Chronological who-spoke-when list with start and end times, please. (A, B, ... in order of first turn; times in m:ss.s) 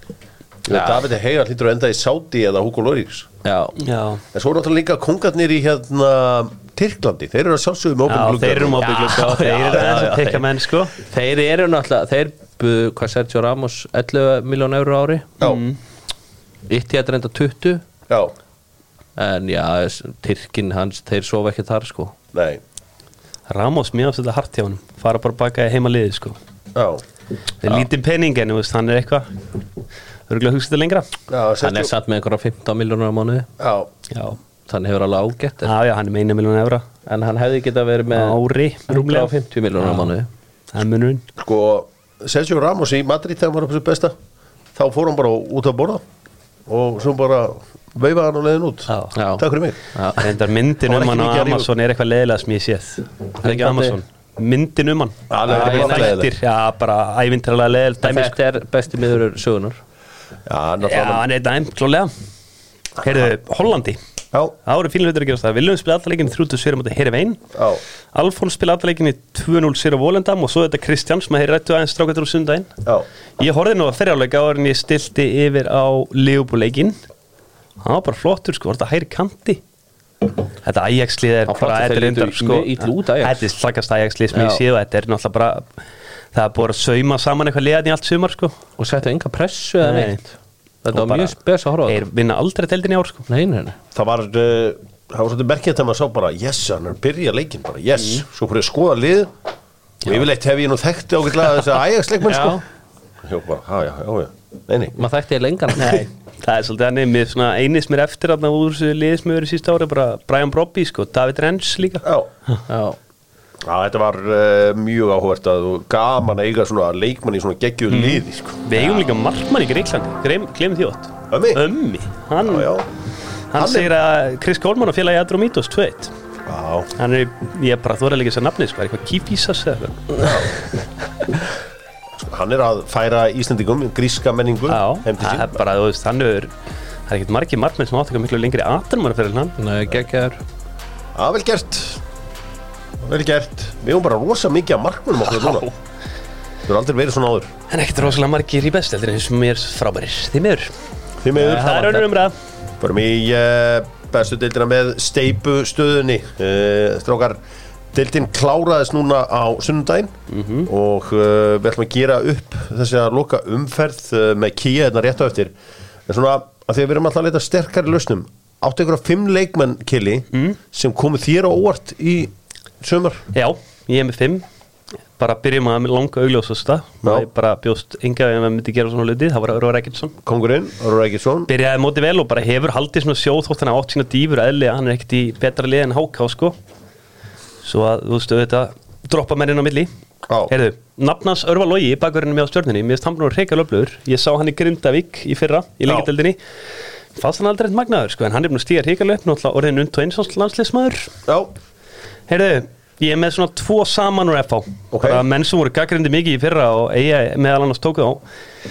0:00.6-0:03.3 A
0:00.7-0:01.0 B
0:03.4-0:03.8 B
0:03.8-0:04.2 C
0:04.3-0:10.5 A
0:08.1-0:10.9 C
0:08.8-0:10.1 B
0:11.0-0:15.3 B
0:15.4-0:15.8 C
0:16.7-0:17.8 B
0:19.2-0:22.1 B
0:22.3-0:22.6 A
0:23.5-0:26.4 C
0:26.7-0:27.0 A
0:27.6-0:29.3 C
0:30.3-0:31.1 C
0:31.3-0:31.9 A
0:31.6-0:33.5 B
0:33.6-0:33.9 A
0:34.1-0:34.4 C
0:34.7-0:35.7 B
0:35.6-0:36.8 C
0:37.0-0:38.4 B
0:38.1-0:40.1 C
0:38.9-0:40.3 B
0:40.7-0:41.2 C
0:41.4-0:44.1 A
0:44.7-0:46.0 A
0:46.7-0:49.8 A
0:49.1-0:50.4 B
0:50.2-0:58.4 C
0:50.8-0:51.7 A
0:53.4-0:54.0 B
0:55.3-0:56.3 A
0:55.5-0:56.1 B
0:58.0-0:59.8 B
1:00.4-1:01.2 A
1:00.8-1:02.1 C
1:03.0-1:04.0 C
1:04.6-1:07.4 C
1:07.5-1:07.8 A
1:08.1-1:12.7 C
1:13.4-1:17.0 C
1:17.8-1:19.6 C
1:20.6-1:25.7 C
1:21.5-1:23.5 B
1:24.3-1:24.6 B
1:26.3-1:28.6 C
1:28.8-1:30.3 B
1:29.8-1:30.2 C
1:30.8-1:32.0 B
1:30.9-1:31.3 C
1:31.8-1:33.3 C
1:33.3-1:33.8 B
1:33.9-1:39.3 A
1:40.0-1:42.6 A
1:42.3-1:42.6 B
1:43.2-1:44.9 A
1:44.9-1:46.1 B
1:45.7-1:52.6 C
1:52.0-1:52.3 A
1:52.7-1:53.0 B
1:53.6-1:59.1 A
1:57.9-2:02.7 C
2:01.3-2:01.6 A
2:02.4-2:02.9 A
2:03.5-2:06.1 C
2:03.5-2:03.9 A
2:06.4-2:06.9 A
2:07.0-2:10.3 C
2:10.2-2:10.5 A
2:12.1-2:15.6 A
2:14.7-2:16.5 C
2:17.1-2:19.6 C
2:19.6-2:20.4 B
2:21.1-2:22.0 A
2:23.0-2:25.7 A
2:25.3-2:25.7 C
2:26.6-2:27.5 A
2:27.7-2:30.7 C
2:31.2-2:32.0 A
2:31.4-2:32.3 C
2:31.4-2:31.9 B
2:32.8-2:37.4 A
2:37.9-2:40.1 A
2:40.3-2:40.7 C
2:40.6-2:45.5 A
2:46.1-2:53.2 A
2:50.3-2:50.6 C
2:53.3-2:54.4 C
2:55.2-3:00.1 C
3:00.2-3:01.5 A
3:01.5-3:06.5 C
3:07.6-3:09.9 C
3:10.3-3:10.5 A
3:10.5-3:16.4 C
3:17.1-3:21.1 C
3:22.3-3:28.2 C
3:24.9-3:25.2 A